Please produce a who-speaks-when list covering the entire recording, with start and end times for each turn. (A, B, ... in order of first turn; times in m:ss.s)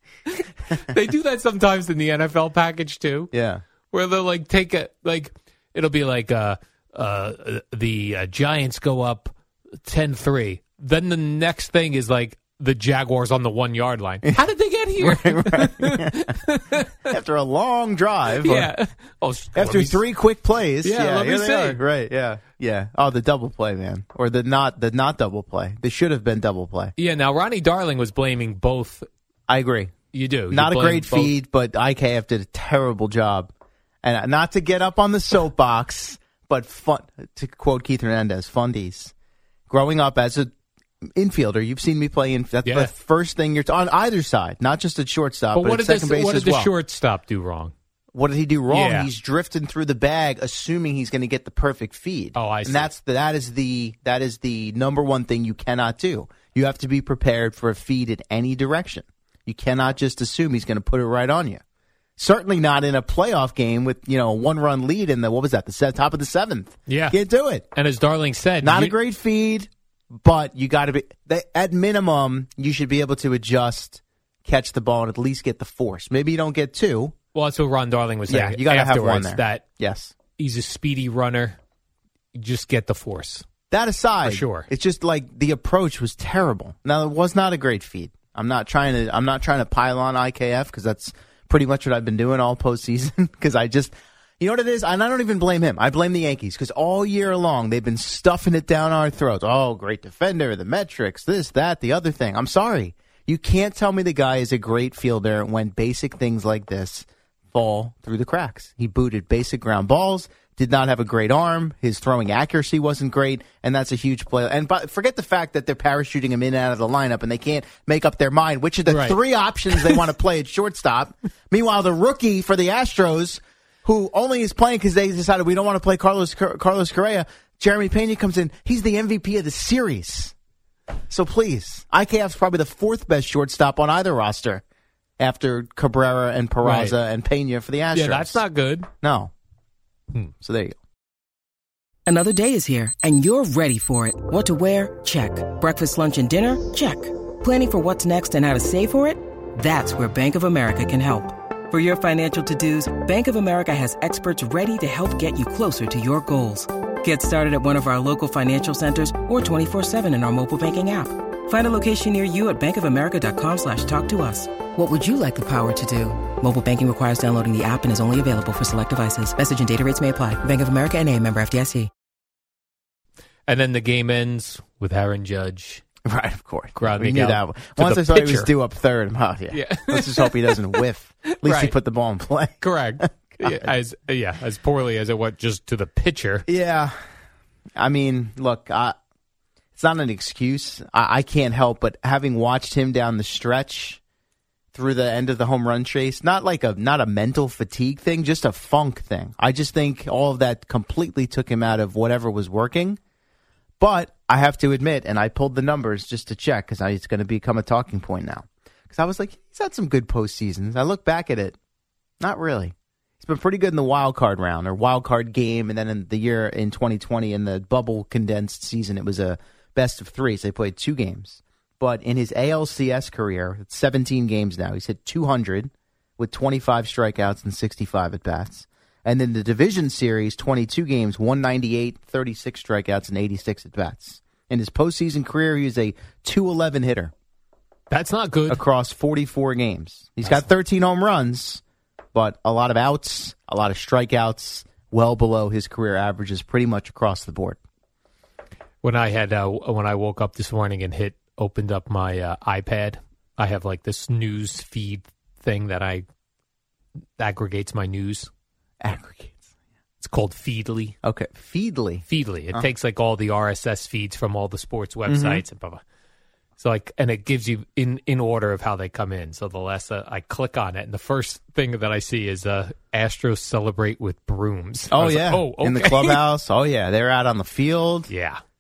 0:00.4-0:03.3 A
0:03.3-0:03.6 B
0:03.9-0:09.3 A
0:09.8-0:16.9 A
0:15.0-0:16.3 B
0:17.1-0:18.7 B
0:18.3-0:20.0 A
0:19.6-0:26.9 B
0:20.8-0:21.8 A
0:27.0-0:29.1 A
0:29.5-0:29.9 B
0:30.1-0:31.3 A
0:30.5-0:33.5 B
0:34.0-0:39.1 B
0:39.7-0:40.5 B
0:41.2-0:46.7 B
0:42.6-0:42.9 A
0:45.5-0:47.7 A
0:48.1-1:01.6 B
0:48.7-0:49.1 A
0:52.4-0:52.9 A
1:02.2-1:07.7 B
1:06.9-1:09.0 A
1:08.6-1:09.7 B
1:10.2-1:17.1 B
1:17.3-1:19.6 A
1:18.3-1:20.2 B
1:20.4-1:21.6 A
1:22.4-1:23.4 A
1:23.7-2:10.3 B
1:24.2-1:24.7 A
1:58.9-1:59.2 A
1:59.7-2:00.0 A
2:11.1-2:14.6 B
2:15.2-2:18.4 B
2:16.6-2:17.0 A
2:17.9-2:18.9 A
2:19.0-2:19.3 B
2:20.4-2:20.8 B
2:22.1-2:51.9 C
2:53.5-2:55.8 A
2:56.1-3:03.7 B
2:56.8-2:58.5 A
2:59.5-3:00.8 A
3:01.4-3:01.8 A
3:02.6-3:06.5 A
3:06.5-3:06.9 B
3:07.8-3:08.9 B
3:09.8-3:14.0 B
3:14.7-3:23.0 B
3:23.8-3:31.6 B
3:32.2-3:57.1 B
3:57.9-3:58.6 A
3:58.5-4:01.6 B
4:02.2-4:07.6 B
4:08.8-4:16.0 A
4:17.2-4:18.3 A
4:18.8-4:19.4 B
4:20.0-4:21.0 A
4:21.0-4:22.7 B
4:22.1-4:25.8 A
4:25.1-4:25.4 B
4:26.6-4:36.2 A
4:34.9-4:38.1 B
4:38.1-4:38.4 A